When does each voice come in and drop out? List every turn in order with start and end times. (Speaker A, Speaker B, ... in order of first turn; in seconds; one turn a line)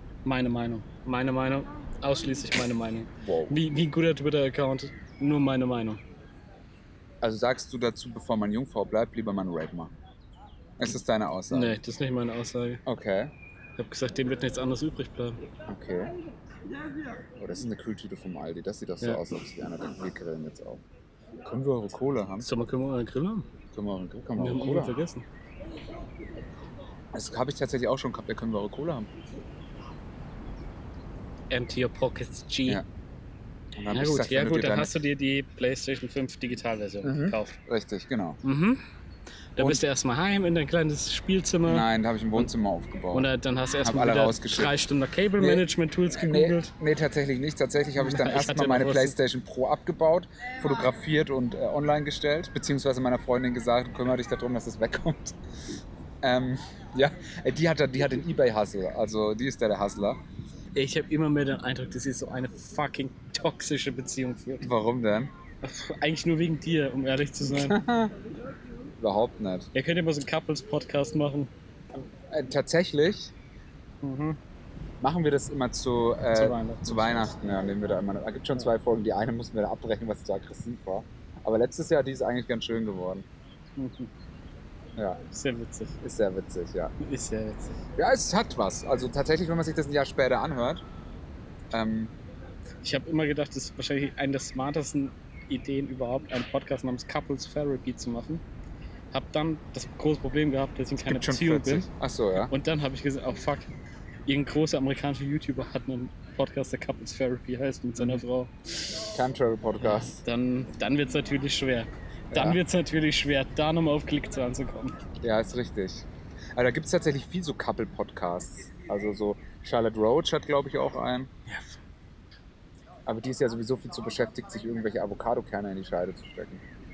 Speaker A: 0.2-6.0
Speaker B: 3.2-3.6
Speaker B: 7.2-9.9
Speaker B: 10.8-11.8
Speaker A: 11.5-12.8
Speaker B: 12.8-13.3
Speaker A: 13.8-15.5
Speaker B: 15.7-16.1
Speaker B: 17.4-20.8
Speaker B: 21.4-22.5
Speaker A: 22.4-23.5
Speaker B: 23.7-25.0
Speaker A: 24.4-25.2
Speaker B: 27.1-29.1
Speaker A: 31.5-32.8
Speaker B: 33.8-34.9
Speaker A: 33.9-37.6
Speaker B: 37.0-38.4
Speaker A: 38.4-38.8
Speaker A: 39.6-41.9
Speaker B: 39.6-39.8
Speaker B: 41.7-43.3
Speaker A: 43.1-46.7
Speaker B: 43.8-44.7
Speaker B: 45.4-55.4
Speaker A: 48.0-49.2
Speaker B: 56.2-60.2
Speaker A: 60.8-64.7
Speaker B: 64.6-65.3
Speaker A: 65.6-67.8
Speaker B: 67.5-68.2
Speaker B: 69.0-69.7
Speaker A: 69.7-71.5
Speaker B: 72.3-73.3
Speaker A: 74.0-74.4
Speaker B: 75.0-83.3
Speaker A: 76.3-77.3
Speaker A: 83.8-84.1
Speaker B: 85.0-85.2
Speaker A: 85.3-86.0
Speaker B: 86.0-86.9
Speaker A: 87.0-87.8
Speaker B: 88.0-90.8
Speaker B: 91.7-92.1
Speaker A: 92.8-98.4
Speaker A: 99.1-101.9
Speaker B: 101.0-102.5
Speaker A: 102.5-103.7
Speaker A: 104.3-109.0
Speaker B: 109.1-110.2
Speaker A: 109.8-115.0
Speaker B: 112.3-112.6
Speaker B: 115.2-121.3
Speaker B: 123.1-126.6